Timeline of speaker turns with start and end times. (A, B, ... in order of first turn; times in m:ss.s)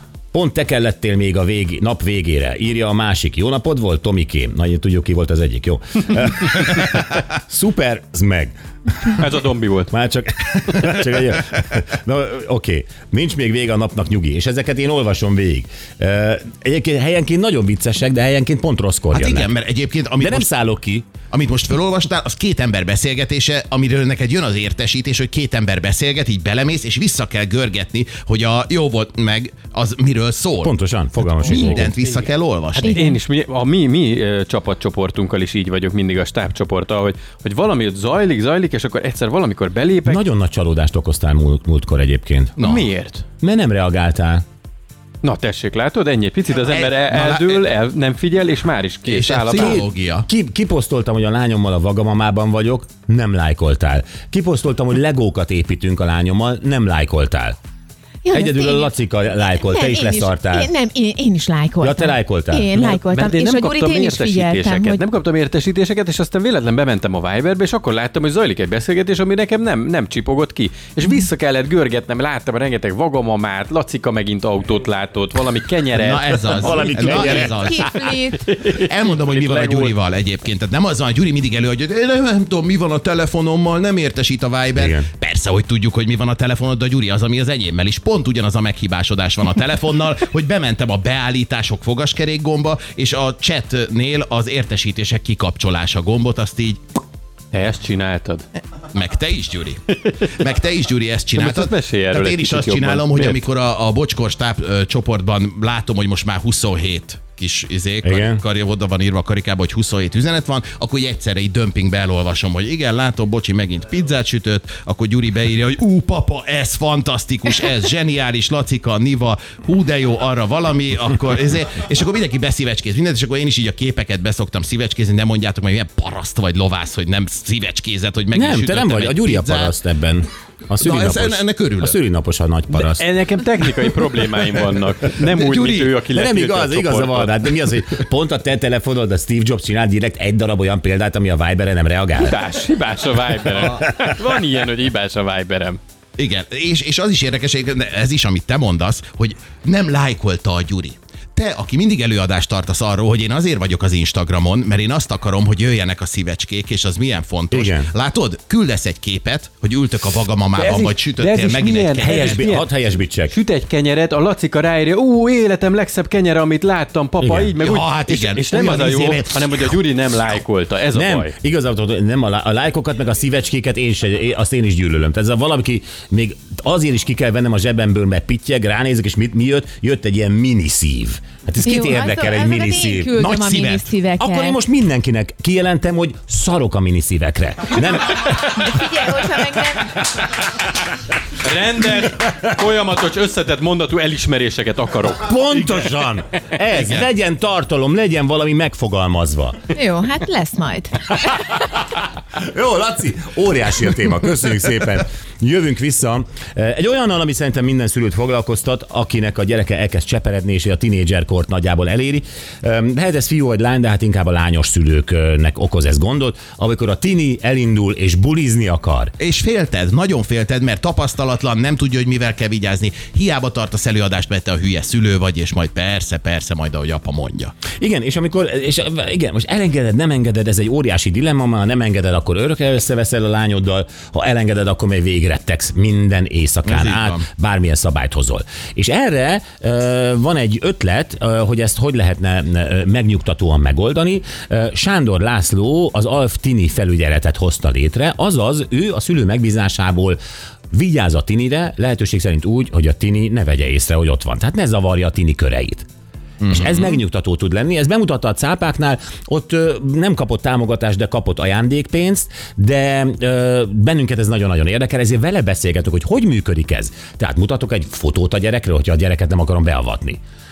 0:00.3-0:09.3 A
0:09.2-0:09.9 B
0:09.9-0:19.5 A
0:19.1-0:20.5 C
0:20.2-0:21.1 A
0:21.3-0:30.7 C
0:30.6-0:31.9 A
0:31.4-0:33.0 C
0:31.4-0:32.2 B
0:32.8-0:40.2 B
0:32.8-0:33.2 D
0:40.0-0:42.6 A
0:42.6-0:42.9 C
0:42.6-0:43.2 B
0:43.4-0:44.4 A
0:45.2-0:49.9 B
0:46.6-0:47.7 C
0:49.1-0:50.3 C
0:49.5-0:57.6 A
0:58.2-1:05.0 D
0:58.3-1:00.7 A
1:01.8-1:02.7 A
1:02.7-1:17.7 B
1:15.9-1:18.0 C
1:16.6-1:17.8 A
1:16.8-1:18.5 D
1:18.4-1:19.9 B
1:18.7-1:36.8 C
1:24.8-1:25.1 A
1:37.5-1:38.5 B
1:38.9-2:09.8 C
1:41.4-1:43.4 B
1:48.0-1:48.4 A
2:08.3-2:13.1 A
2:10.8-2:12.0 C
2:12.7-2:18.0 B
2:15.2-2:16.0 C
2:16.1-2:22.4 A
2:22.2-2:25.8 B
2:26.2-2:42.5 C
2:37.5-2:37.9 A
2:40.6-2:51.3 B
2:42.0-2:43.4 A
2:47.2-2:47.5 A
2:47.6-2:49.7 C
2:50.9-3:03.2 A
3:01.6-3:04.6 D
3:03.2-3:03.9 C
3:04.2-3:08.8 A
3:08.1-3:10.0 D
3:11.4-3:15.3 B
3:15.2-3:19.6 A
3:19.7-3:21.3 D
3:22.4-3:39.1 A
3:39.2-3:47.6 C
3:47.8-4:10.2 A
3:56.6-3:57.2 C
4:10.7-4:15.9 A
4:16.4-4:16.8 C
4:16.5-4:30.2 A